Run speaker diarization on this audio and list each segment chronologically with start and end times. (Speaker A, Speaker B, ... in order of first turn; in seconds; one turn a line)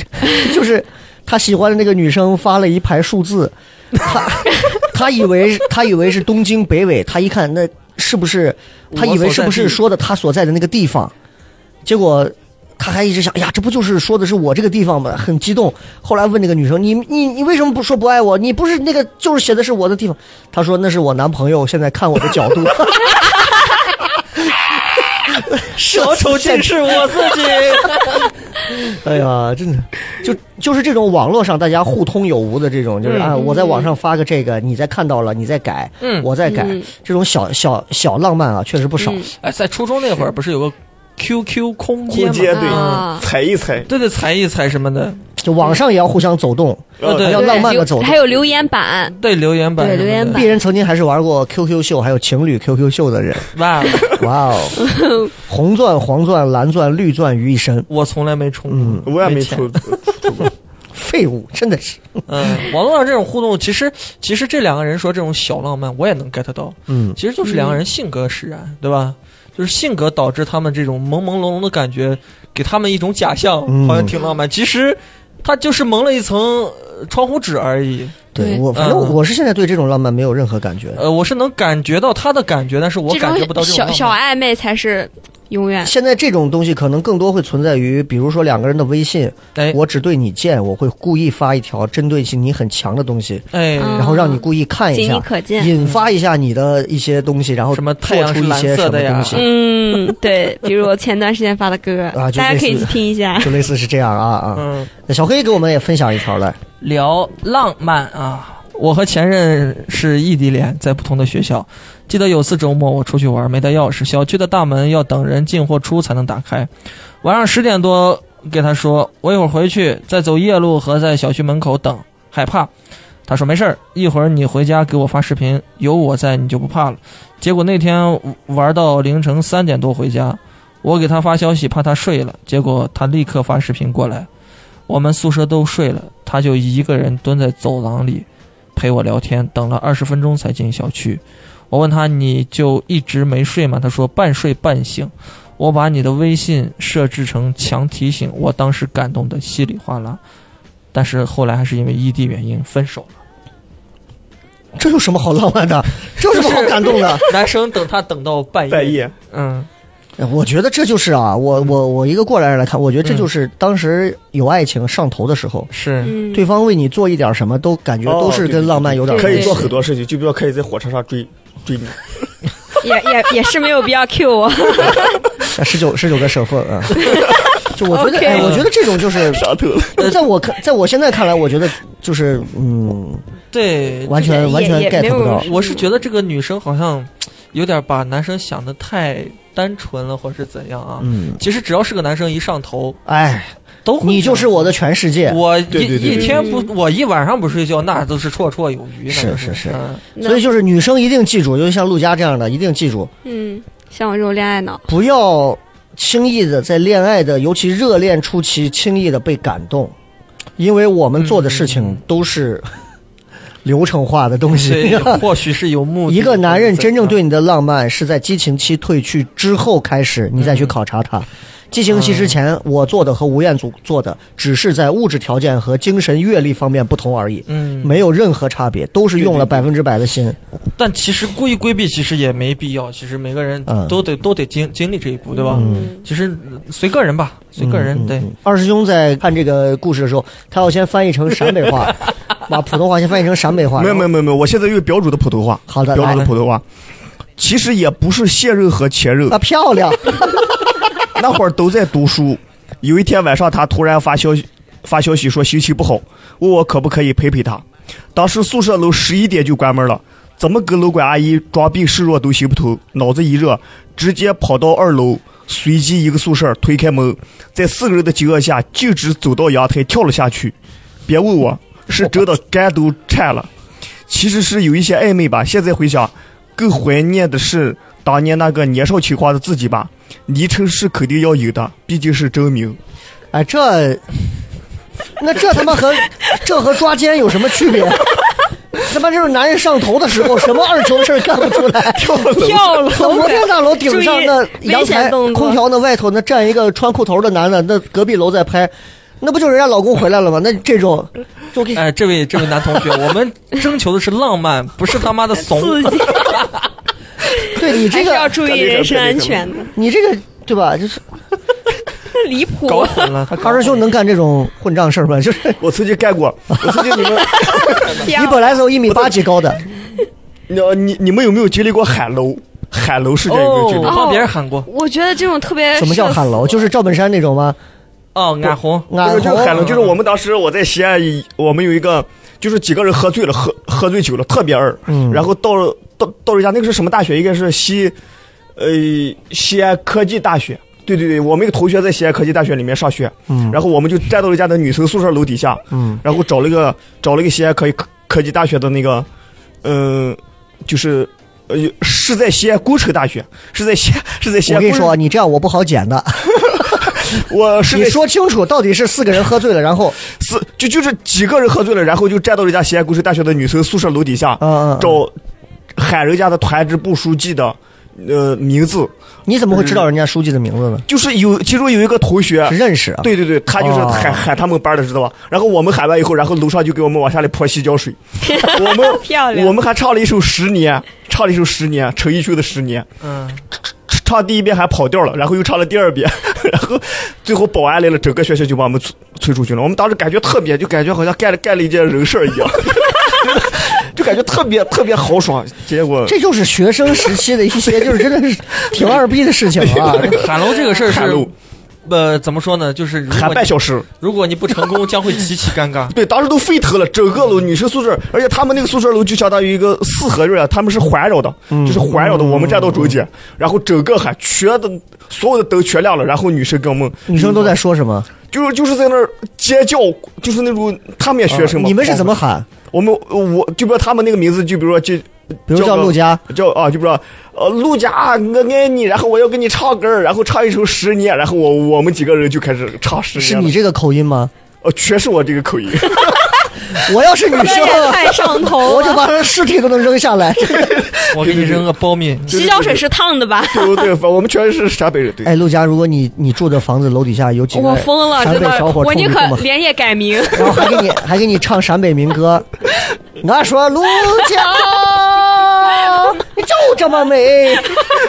Speaker A: 0.2-11.1
Speaker B: 8.9-9.8
Speaker A: 11.8-23.3
Speaker A: 25.3-39.2
Speaker B: 25.8-28.3
Speaker B: 33.0-33.4
Speaker C: 33.3-33.9
Speaker B: 36.0-36.3
Speaker C: 36.4-36.9
Speaker C: 39.0-39.3
Speaker B: 39.4-43.1
Speaker D: 42.1-43.9
Speaker C: 42.5-43.2
Speaker B: 43.9-45.2
Speaker A: 45.4-48.5
Speaker D: 47.0-47.4
Speaker B: 47.0-47.7
Speaker C: 47.3-49.2
Speaker B: 49.2-50.4
Speaker C: 49.8-50.5
Speaker A: 50.3-57.9
Speaker B: 53.5-54.2
Speaker C: 54.9-55.3
Speaker B: 57.9-59.8
Speaker A: 58.7-59.1
Speaker D: 59.0-60.5
Speaker A: 60.9-62.2
Speaker B: 62.3-79.2
Speaker A: 66.9-67.2
Speaker C: 67.4-67.8
Speaker A: 73.7-74.1
Speaker C: 74.1-74.4
Speaker A: 78.3-81.0
Speaker C: 78.4-78.6
Speaker B: 81.0-84.2
Speaker C: 83.1-85.9
Speaker A: 85.8-99.5
Speaker B: 89.5-89.8
Speaker B: 93.5-94.2
Speaker C: 93.8-95.7
Speaker B: 95.8-96.1
Speaker B: 97.7-99.5
Speaker C: 99.3-103.6
Speaker A: 102.1-106.6
Speaker B: 104.6-104.9
Speaker B: 106.8-116.7
Speaker B: 117.2-122.7
Speaker B: 123.3-134.3
Speaker B: 134.9-150.2
Speaker B: 150.9-153.2
Speaker A: 154.8-157.3
Speaker B: 156.3-159.7
Speaker D: 158.7-159.1
Speaker A: 160.2-165.7
Speaker B: 165.7-166.2
Speaker C: 166.0-166.4
Speaker A: 166.3-169.8
Speaker D: 168.1-172.0
Speaker C: 169.1-169.6
Speaker C: 172.8-175.3
Speaker A: 175.6-177.1
Speaker C: 177.0-178.5
Speaker A: 177.6-183.2
Speaker B: 178.3-178.7
Speaker D: 179.2-180.0
Speaker B: 183.5-184.5
Speaker A: 184.1-185.5
Speaker C: 184.2-185.8
Speaker B: 185.4-193.0
Speaker A: 191.0-191.4
Speaker A: 193.1-195.4
Speaker B: 193.8-194.7
Speaker B: 195.2-200.0
Speaker D: 195.7-196.4
Speaker C: 196.0-196.7
Speaker A: 199.1-203.1
Speaker C: 200.2-200.4
Speaker C: 203.2-204.9
Speaker A: 204.9-209.9
Speaker A: 210.6-212.7
Speaker B: 211.2-212.0
Speaker A: 213.6-215.2
Speaker B: 214.5-217.2
Speaker A: 216.1-230.4
Speaker B: 220.4-220.8
Speaker B: 221.9-222.4
Speaker B: 227.5-228.0
Speaker D: 229.2-229.6
Speaker B: 230.8-238.3
Speaker A: 233.7-234.0
Speaker C: 235.3-236.0
Speaker A: 235.5-235.9
Speaker A: 237.6-244.1
Speaker D: 243.8-246.6
Speaker A: 245.7-246.2
Speaker B: 246.1-246.3
Speaker D: 247.4-249.4
Speaker A: 249.3-250.6
Speaker D: 251.2-257.6
Speaker D: 258.1-270.6
Speaker D: 271.1-273.5
Speaker D: 274.1-282.8
Speaker A: 283.3-284.0
Speaker A: 285.2-301.8
Speaker D: 291.9-292.9
Speaker C: 292.1-295.6
Speaker B: 301.7-306.6
Speaker A: 302.4-302.7
Speaker C: 305.4-306.4
Speaker C: 307.4-309.7
Speaker A: 307.5-308.4
Speaker D: 308.4-309.6
Speaker A: 309.7-311.1
Speaker C: 312.1-313.1
Speaker B: 312.7-313.9
Speaker A: 313.4-315.6
Speaker D: 315.6-318.1
Speaker A: 316.6-317.0
Speaker C: 317.3-318.5
Speaker A: 318.0-319.6
Speaker D: 318.9-319.2
Speaker D: 320.5-324.0
Speaker B: 323.2-324.7
Speaker C: 323.8-326.7
Speaker A: 325.7-327.6
Speaker B: 328.1-330.0
Speaker A: 328.9-329.6
Speaker D: 329.0-337.9
Speaker A: 334.9-335.3
Speaker D: 338.6-349.1
Speaker A: 343.3-343.6
Speaker A: 345.7-346.0
Speaker D: 349.6-354.9
Speaker A: 354.4-356.9
Speaker D: 356.8-358.0
Speaker A: 357.7-360.0
Speaker D: 360.0-365.1
Speaker A: 364.4-365.0
Speaker D: 365.8-368.9
Speaker A: 369.3-370.9
Speaker D: 370.9-382.9
Speaker A: 372.4-374.2
Speaker C: 378.2-379.6
Speaker B: 383.0-383.4
Speaker D: 383.9-396.1
Speaker A: 396.1-400.3
Speaker D: 399.6-401.3
Speaker B: 400.1-401.3
Speaker B: 401.9-405.9
Speaker D: 403.1-403.9
Speaker D: 405.9-417.6
Speaker A: 411.5-413.0
Speaker A: 417.1-418.1
Speaker D: 418.3-433.5
Speaker A: 421.3-422.5
Speaker A: 425.5-426.2
Speaker A: 433.1-434.3
Speaker D: 434.6-436.2
Speaker A: 436.7-440.9
Speaker C: 437.4-439.0
Speaker D: 440.6-441.6
Speaker B: 441.1-442.3
Speaker D: 442.3-442.9
Speaker C: 442.3-443.9
Speaker D: 443.5-445.3
Speaker A: 445.2-449.4
Speaker C: 447.5-450.8
Speaker A: 450.3-452.5
Speaker A: 453.2-457.9